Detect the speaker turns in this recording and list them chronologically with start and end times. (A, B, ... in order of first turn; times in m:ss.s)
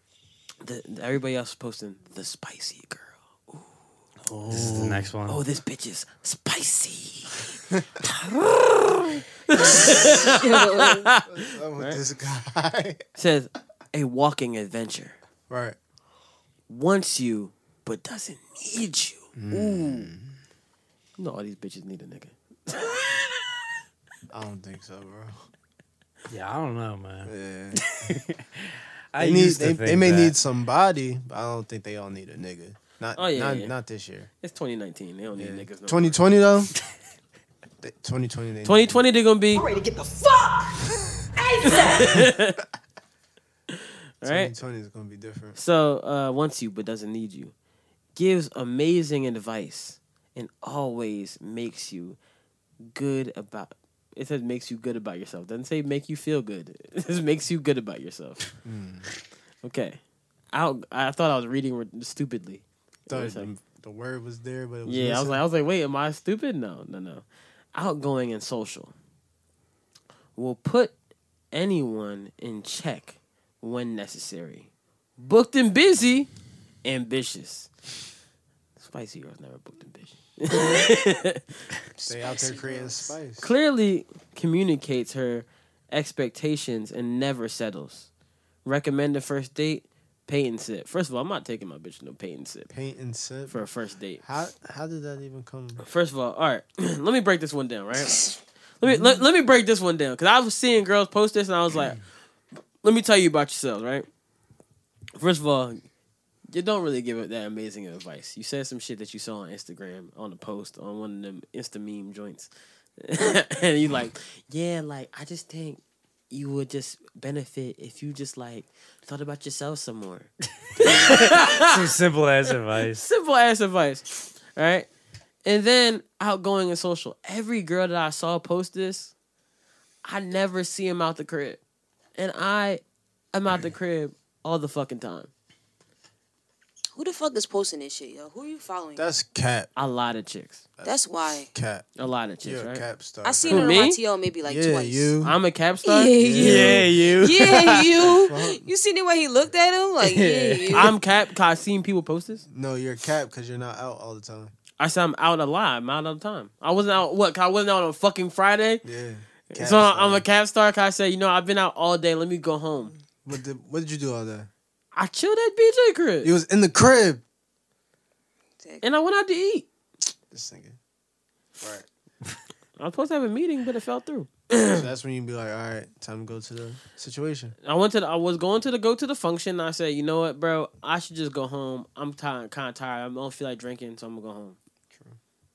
0:00.6-0:03.7 A
0:04.3-0:05.1 B
0:04.5-0:05.4 C
0:05.3-0:12.0 A
0:10.0-0:11.1 D
0:11.3-0:13.0 B
0:13.2-0:15.2 A
0:15.5-0:15.8 B
0:16.7-0:20.1 A
0:19.4-0:20.3 B
0:21.2-0:23.4 A
0:24.3-0:25.3 B
0:26.3-0:30.3 C
0:27.2-0:27.8 B
0:29.2-0:34.3 B
0:33.1-0:33.7 A
0:34.4-0:36.2 A
0:35.4-0:36.7 B
0:37.8-0:39.0 B
0:38.6-0:39.6 A
0:39.5-0:42.3 E
0:41.8-0:42.6 A
0:44.2-0:44.5 A
0:44.2-0:45.6 B
0:45.6-0:47.5 A
0:48.2-0:52.2 A
0:52.9-0:58.4 A
0:58.6-0:59.0 B
0:59.6-1:00.0 A
1:00.5-1:03.5 A
1:03.1-1:05.4 B
1:04.8-1:08.9 A
1:10.4-1:10.9 A
1:11.5-1:16.3 A
1:16.8-1:17.7 A
1:18.8-1:21.4 A
1:22.0-1:23.5 B
1:22.0-1:23.1 D
1:23.4-1:28.1 A
1:28.6-1:32.7 A
1:32.7-1:33.6 B
1:33.5-1:34.2 A
1:34.2-1:35.8 B
1:35.8-1:42.0 A
1:38.8-1:39.2 B
1:42.8-1:44.1 A
1:45.2-1:45.8 A
1:46.5-2:01.9 A
2:00.8-2:03.0 C
2:02.8-2:04.9 A
2:05.4-2:09.1 A
2:10.0-2:11.6 A
2:12.2-2:12.8 A
2:13.3-2:15.3 A
2:16.9-2:19.0 D
2:19.0-2:19.7 B
2:19.8-2:20.6 A
2:20.8-2:21.5 D
2:21.5-2:21.9 B
2:22.0-2:22.8 A
2:22.4-2:23.8 B
2:23.2-2:25.1 D
2:23.5-2:24.0 A
2:24.4-2:25.4 B
2:25.2-2:26.8 A
2:25.8-2:30.9 D
2:26.2-2:26.8 B
2:26.3-2:28.0 C
2:28.0-2:28.6 B
2:30.0-2:30.9 C
2:30.7-2:32.4 A
2:32.5-2:34.5 B
2:34.8-2:38.8 A
2:38.8-2:40.2 B
2:39.5-2:42.9 A
2:43.2-2:44.5 B
2:44.9-2:46.3 A
2:46.2-2:47.2 B
2:48.8-2:49.6 A
2:50.3-2:50.8 B
2:51.6-2:51.8 B
2:52.8-2:54.8 A
2:54.7-2:57.5 B
2:57.6-3:04.6 A
3:04.9-3:05.2 B